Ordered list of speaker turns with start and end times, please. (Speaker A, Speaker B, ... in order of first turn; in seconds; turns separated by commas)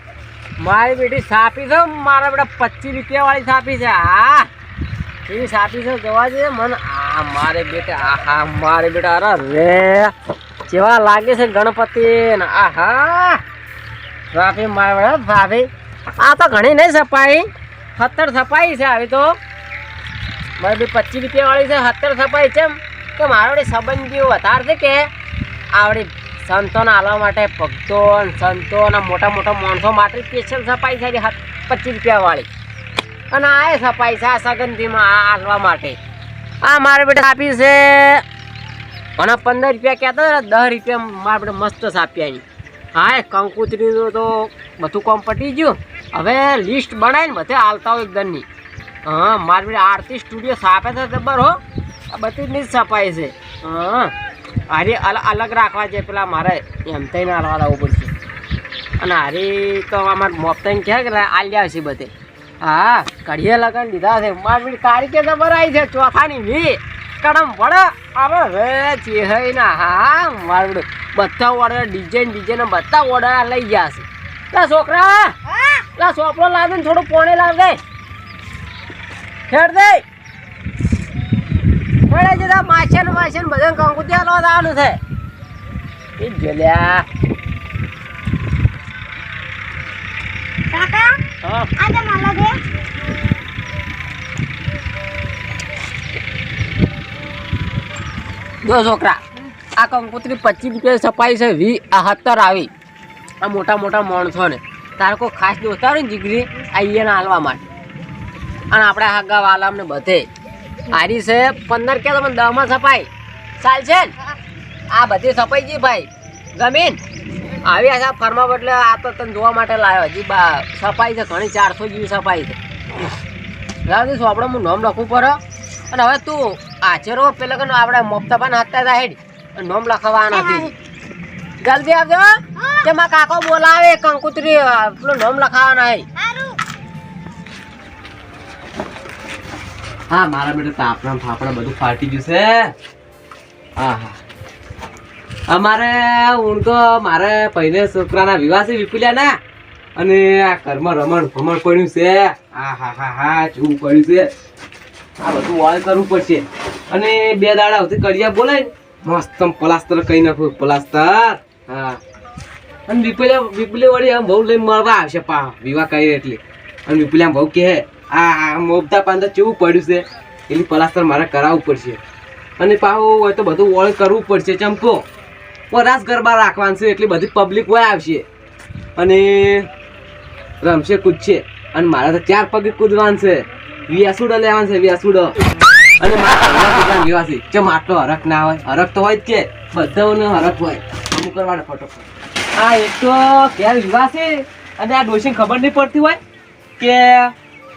Speaker A: 0.6-4.5, Speaker A: 5.3-10.1, Speaker A: 10.7-13.4, Speaker A: 14.3-15.7, Speaker A: 16.2-17.5, Speaker A: 18.0-19.4, Speaker A: 20.6-25.0, Speaker A: 25.7-32.5, Speaker A: 33.3-36.0, Speaker A: 36.6-38.2, Speaker A: 39.2-42.4, Speaker A: 43.0-48.5, Speaker A: 49.0-51.6, Speaker A: 52.1-54.1, Speaker A: 54.7-58.1, Speaker A: 59.0-62.1, Speaker A: 62.6-75.3, Speaker B: 75.5-75.8, Speaker A: 76.0-77.8, Speaker A: 79.5-80.0, Speaker A: 82.1-85.0, Speaker A: 86.2-87.0, Speaker B: 90.7-91.2, Speaker A: 91.4-91.7, Speaker B: 91.8-92.5, Speaker A: 98.6-99.2, Speaker A: 99.8-102.7, Speaker A: 103.4-107.7, Speaker A: 108.7-110.3, Speaker A: 110.9-113.1, Speaker A: 113.6-114.1, Speaker A: 114.9-117.0, Speaker A: 117.6-122.6, Speaker A: 123.9-125.4, Speaker A: 125.9-130.7, Speaker B: 130.3-130.7, Speaker A: 131.6-136.1, Speaker B: 132.6-132.9, Speaker B: 136.2-136.6, Speaker C: 140.1-142.7, Speaker C: 143.8-144.2, Speaker C: 145.5-149.4, Speaker C: 150.0-154.3, Speaker C: 155.2-162.0, Speaker C: 162.9-172.0, Speaker C: 172.6-175.0, Speaker C: 175.7-178.2, Speaker C: 179.0-179.7, Speaker C: 180.6-185.3, Speaker C: 186.0-192.0, Speaker C: 192.6-196.2, Speaker C: 196.8-197.3